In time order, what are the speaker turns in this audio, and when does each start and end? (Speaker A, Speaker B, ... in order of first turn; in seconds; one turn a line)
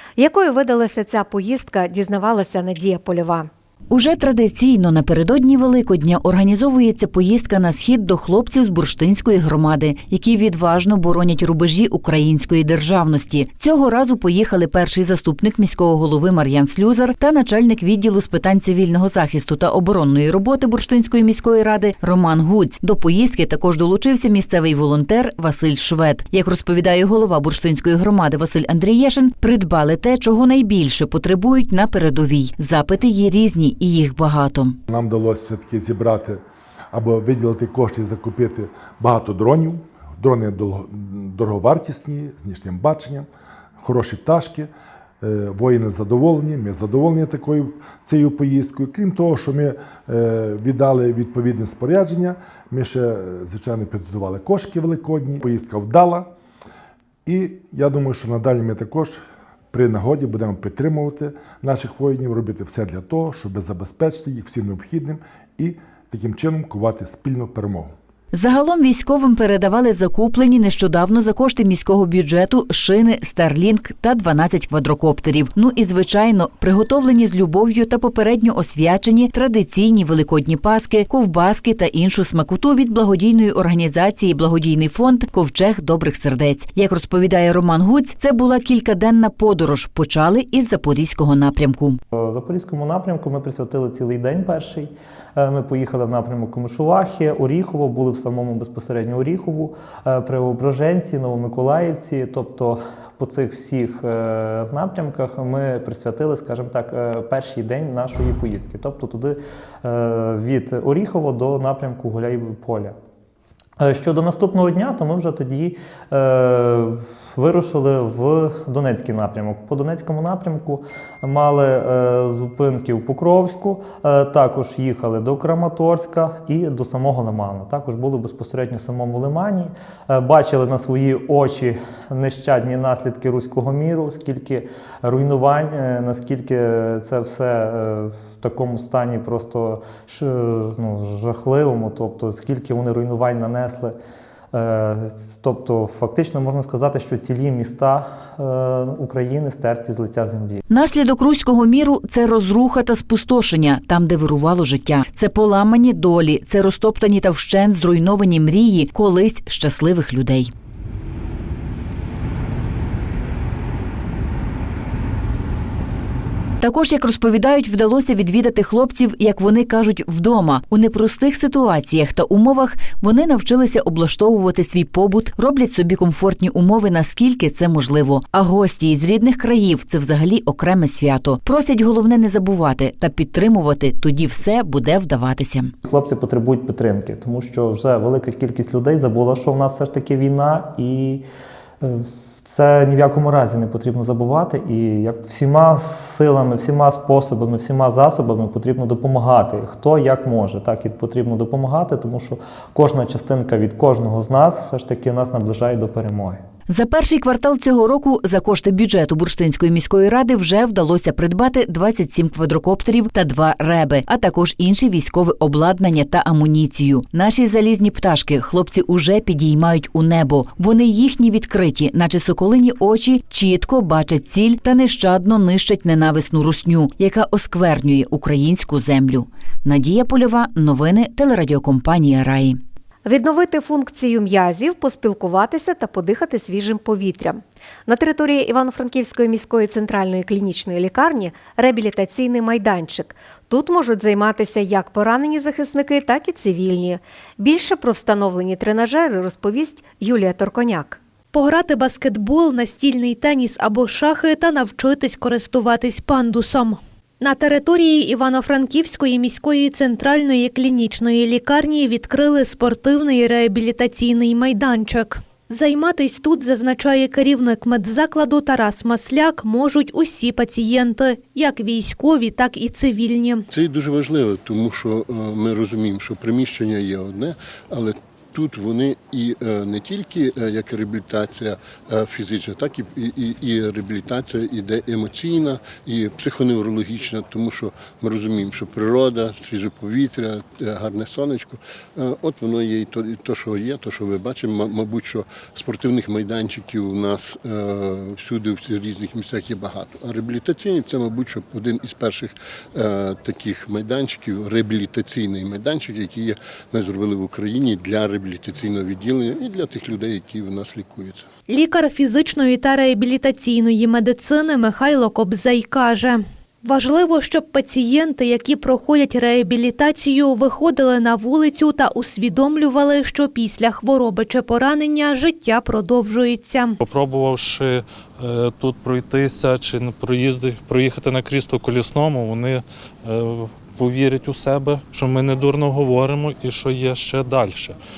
Speaker A: 0.2-3.5
Speaker B: 3.9-34.8
Speaker C: 34.9-36.4
Speaker C: 36.9-43.3
Speaker C: 43.8-44.7
Speaker C: 45.2-56.3
Speaker C: 57.3-59.2
Speaker C: 59.7-67.9
Speaker B: 68.3-92.0
Speaker D: 92.1-113.0
Speaker D: 113.8-144.0
Speaker D: 144.5-150.6
Speaker B: 150.7-160.5
Speaker B: 166.6-185.7
Speaker D: 185.8-191.2
Speaker D: 191.8-206.4
Speaker B: 206.7-232.6
Speaker A: 233.1-251.0
Speaker E: 251.3-273.5
Speaker F: 273.5-311.3
Speaker E: 311.5-326.8
Speaker G: 326.8-337.8